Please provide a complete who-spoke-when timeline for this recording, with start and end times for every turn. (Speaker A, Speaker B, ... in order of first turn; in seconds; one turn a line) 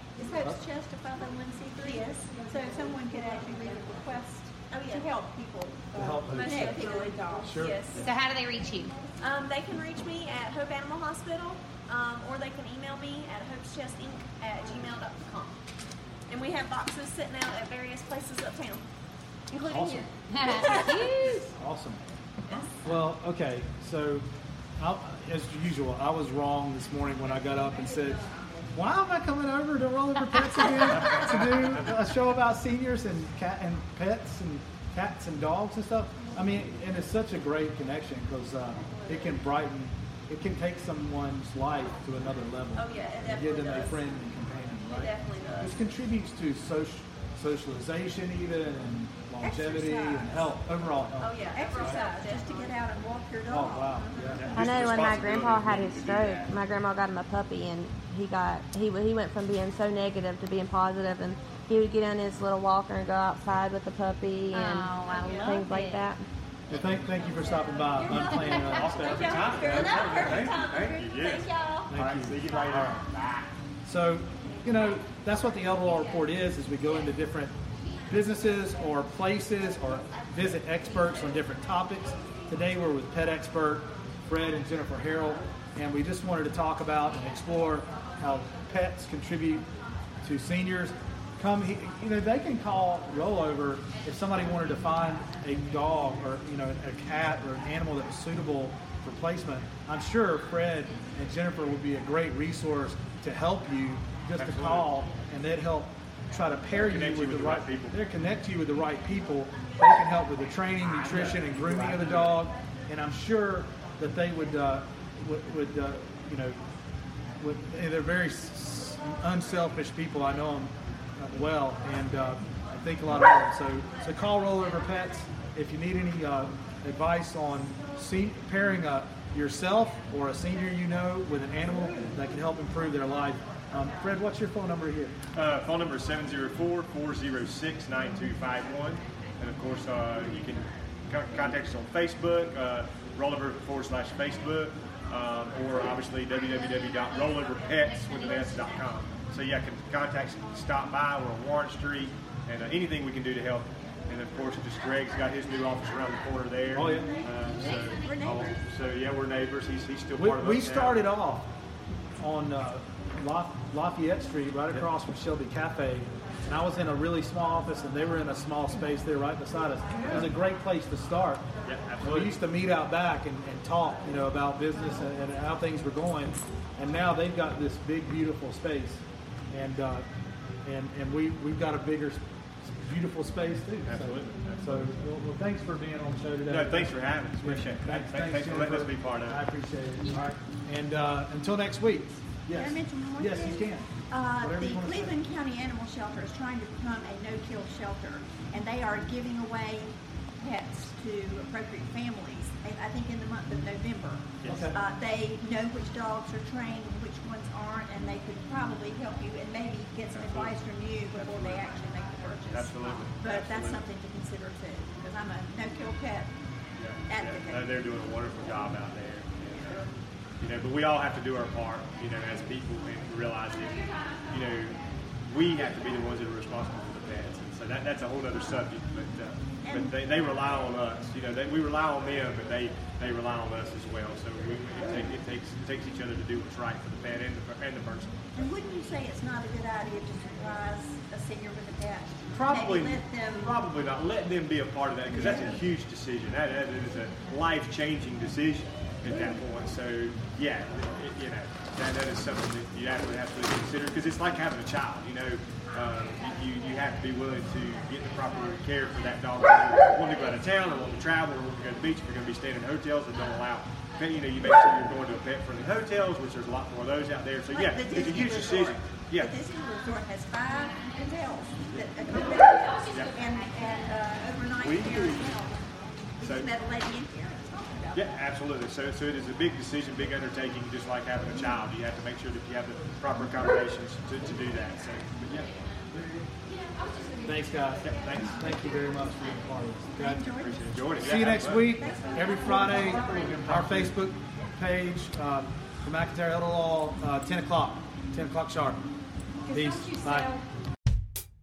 Speaker A: 0.2-7.6
Speaker B: 4.7-5.1
Speaker C: 6.0-6.8
Speaker B: 6.3-8.1
Speaker C: 7.4-7.9
Speaker D: 8.0-9.0
Speaker B: 9.2-15.6
Speaker B: 16.3-18.8
Speaker B: 19.5-21.0
Speaker C: 19.7-20.1
Speaker D: 20.3-21.5
Speaker C: 21.3-22.1
Speaker C: 22.8-52.0
Speaker A: 27.3-28.7
Speaker B: 42.8-44.0
Speaker B: 44.9-45.8
Speaker A: 49.4-50.5
Speaker B: 51.2-52.7
Speaker A: 51.5-54.0
Speaker C: 53.5-54.5
Speaker B: 54.0-54.6
Speaker E: 54.4-56.6
Speaker F: 54.5-64.9
Speaker D: 64.5-66.1
Speaker B: 65.0-65.5
Speaker F: 65.5-66.2
Speaker E: 66.7-67.2
Speaker C: 66.7-70.0
Speaker B: 68.0-71.9
Speaker E: 68.2-73.6
Speaker D: 68.3-69.0
Speaker C: 71.9-73.0
Speaker C: 73.8-77.5
Speaker C: 78.1-89.7
Speaker C: 90.2-116.6
Speaker E: 104.4-105.1
Speaker E: 106.8-108.0
Speaker E: 110.8-112.5
Speaker C: 117.4-135.2
Speaker E: 135.3-161.1
Speaker D: 146.9-148.9
Speaker C: 156.7-157.2
Speaker D: 157.5-158.2
Speaker A: 157.5-158.6
Speaker C: 160.2-161.5
Speaker C: 162.2-171.5
Speaker E: 170.0-170.3
Speaker E: 171.6-172.5
Speaker C: 172.0-180.1
Speaker C: 180.6-195.1
Speaker E: 183.8-185.0
Speaker E: 186.5-189.4
Speaker A: 192.5-216.3
Speaker E: 204.4-204.8
Speaker C: 204.4-204.8
Speaker E: 210.1-211.9
Speaker E: 212.4-213.9
Speaker E: 216.8-219.9
Speaker A: 217.1-217.7
Speaker E: 220.4-238.2
Speaker A: 229.7-230.0
Speaker A: 238.4-243.6
Speaker E: 242.3-269.4
Speaker A: 245.1-245.6
Speaker A: 267.5-278.1
Speaker E: 271.7-272.0
Speaker E: 272.9-273.2
Speaker E: 274.6-275.4
Speaker E: 276.2-276.5
Speaker E: 277.9-285.6
Speaker C: 287.2-290.2
Speaker E: 287.8-288.4
Speaker A: 290.0-293.3
Speaker E: 290.1-291.8
Speaker C: 291.0-298.8
Speaker E: 293.2-293.8
Speaker C: 299.5-300.4
Speaker A: 299.7-300.2